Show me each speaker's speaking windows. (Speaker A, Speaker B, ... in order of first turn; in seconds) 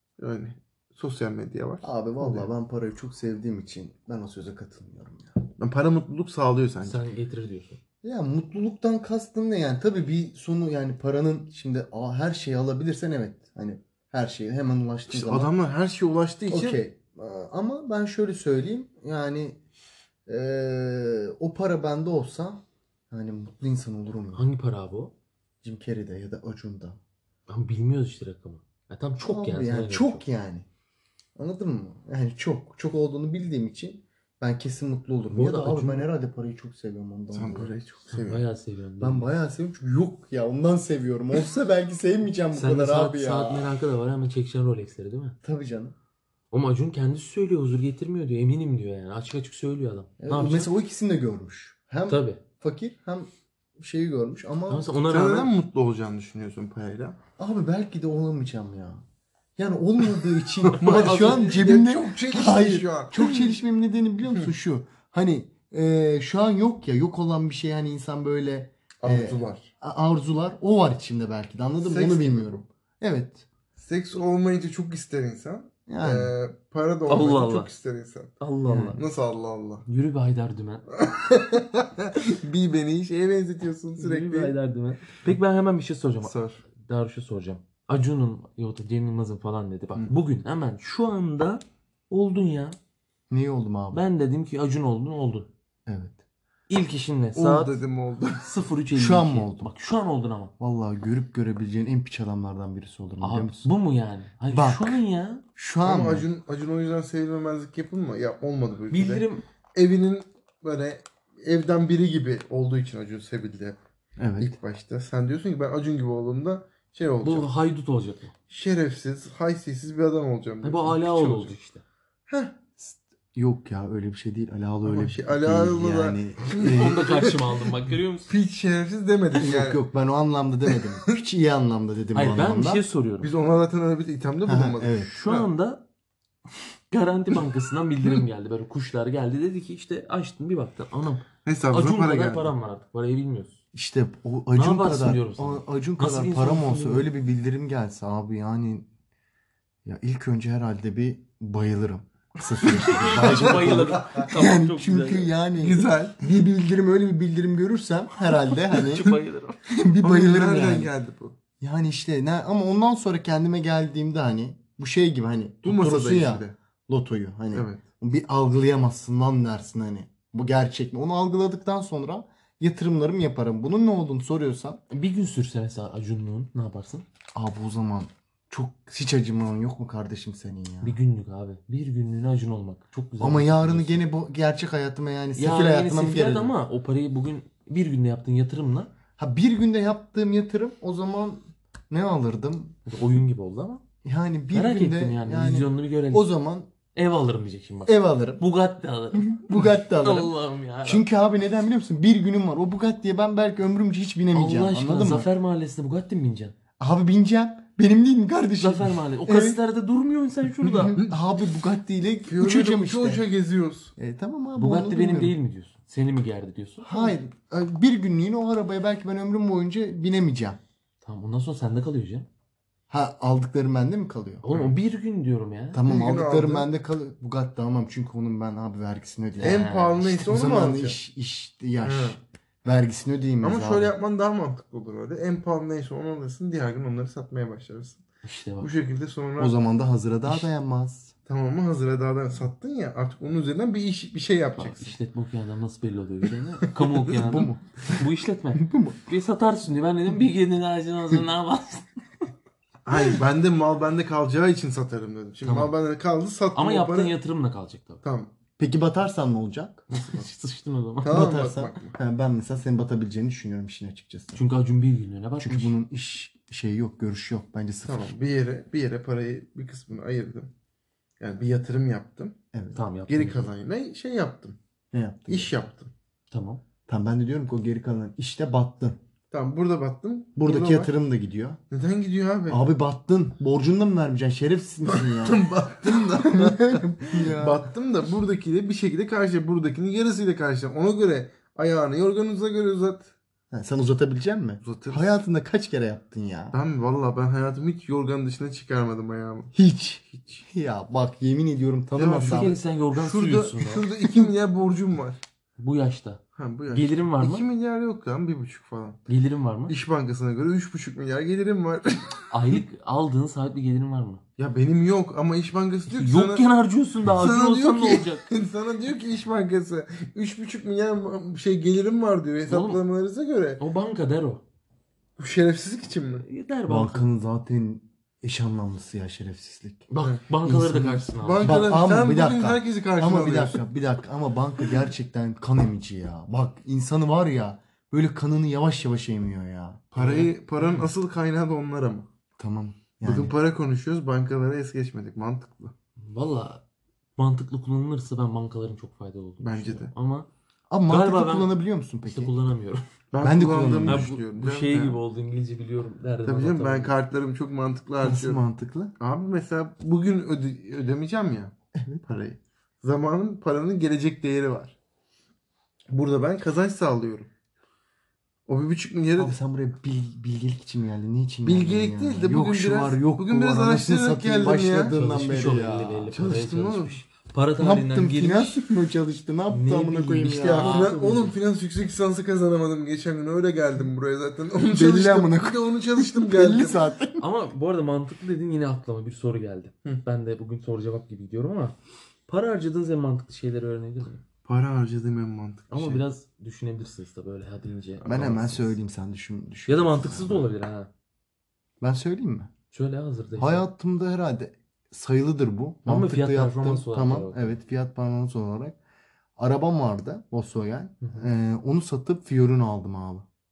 Speaker A: 0.2-2.5, 5.6-7.0, 15.1-16.8, 37.3-38.4, 55.1-57.2, 60.7-63.5, 69.0-69.7, 71.8-72.6, 73.8-78.3, 79.0-79.8, 80.9-84.5, 86.2-86.6, 97.3-98.5, 105.8-113.8, 114.4-117.5, 118.5-121.5, 122.3-122.5, 124.8-127.4, 128.3-129.8, 130.7-131.2, 133.2-135.5, 141.4-142.5, 153.0-153.9, 155.6-156.2, 160.0-161.3, 165.6-166.5, 167.5-167.8, 212.3-213.9, 225.8-226.7, 229.4-231.0, 231.8-232.2, 233.4-238.0, 238.6-239.5, 241.3-244.9, 246.7-247.0, 252.8-257.1, 258.0-258.3, 259.9-260.3, 261.0-261.9, 267.8-270.5, 271.2-272.4, 273.1-274.6, 275.3-275.9, 279.3-280.9, 281.7-282.6, 284.9-293.1, 294.6-295.1, 296.5-299.5, 300.1-300.4, 301.9-305.2, 306.4-309.0, 309.7-312.2, 314.4-316.4, 317.1-323.6, 325.2-326.2, 331.1-333.6, 339.9-342.1, 343.0-345.7, 349.4-349.9, 353.1-355.0, 356.2-358.4, 359.0-361.5, 362.0-364.7, 365.9-367.3, 368.5-369.4, 371.4-375.0, 376.1-377.0, 380.4-386.8, 394.4-396.0, 398.0-398.4
Speaker B: 1.8-5.4, 8.0-15.5, 16.5-19.6, 20.3-24.4, 25.6-27.0, 29.2-30.7, 31.4-37.7, 39.0-43.7, 45.4-45.9, 50.2-54.9, 57.4-59.0, 59.6-73.5, 75.9-76.3, 78.7-79.0, 93.3-94.0, 95.9-96.2, 98.9-99.7, 100.6-103.7, 104.5-105.0, 105.5-106.3, 114.2-114.5, 122.8-127.2, 129.4-132.8, 134.4-135.2, 143.7-148.9, 149.8-159.1, 159.7-160.9, 161.6-174.8, 177.3-181.0, 183.2-186.5, 189.2-192.8, 194.0-196.7, 197.8-198.4, 199.1-200.3, 200.8-205.3, 206.8-209.6, 210.8-213.2, 214.0-215.3, 216.8-220.6, 222.9-224.5, 225.7-229.7, 230.2-233.9, 239.4-241.1, 247.2-247.6, 248.5-249.0, 258.6-259.9, 261.1-264.4, 265.4-268.1, 272.5-272.8, 274.9-275.5, 276.9-279.0, 280.4-281.6, 282.5-287.7, 293.5-296.6, 299.5-302.6, 326.7-329.9, 330.4-339.9, 342.4-343.3, 350.7-352.3, 353.2-354.1, 358.0-358.9, 361.7-362.0, 369.2-376.1, 377.6-380.9, 384.7-387.2, 398.0-400.4, 401.8-402.5, 403.4-408.8, 409.4-413.2
Speaker C: 6.8-7.8, 24.3-25.1, 27.5-30.2, 35.3-36.1, 38.1-39.3, 42.5-45.4, 46.5-50.7, 52.1-52.4, 54.7-55.5, 60.9-61.6, 77.1-77.7, 78.4-79.0, 79.8-80.8, 84.0-92.8, 93.9-95.5, 96.7-97.8, 98.4-100.5, 103.2-105.4, 108.9-109.4, 117.2-118.3, 120.6-121.8, 126.5-128.3, 132.1-133.3, 135.0-135.8, 136.9-143.6, 144.5-147.1, 152.6-155.3, 158.4-159.6, 174.9-177.0, 180.8-184.1, 185.3-188.9, 192.8-193.8, 194.5-196.3, 196.9-201.1, 204.3-206.5, 208.6-211.0, 214.6-217.1, 221.0-222.3, 224.4-225.8, 229.4-230.2, 238.2-238.7, 244.6-251.9, 255.4-255.7, 256.5-258.0, 259.9-261.3, 264.3-265.7, 272.7-273.5, 276.3-276.6, 302.1-303.9, 305.6-307.5, 309.1-309.8, 312.3-314.2, 315.9-318.2, 322.4-322.8, 323.6-324.4, 326.2-327.1, 329.9-331.7, 339.9-340.9, 346.0-346.6, 347.2-350.3, 350.9-352.9, 353.9-356.9, 374.9-378.6, 379.5-381.3, 387.2-391.8, 392.3-394.2, 395.7-398.7, 399.7-400.9, 402.7-403.6, 405.9-407.6, 411.0-411.3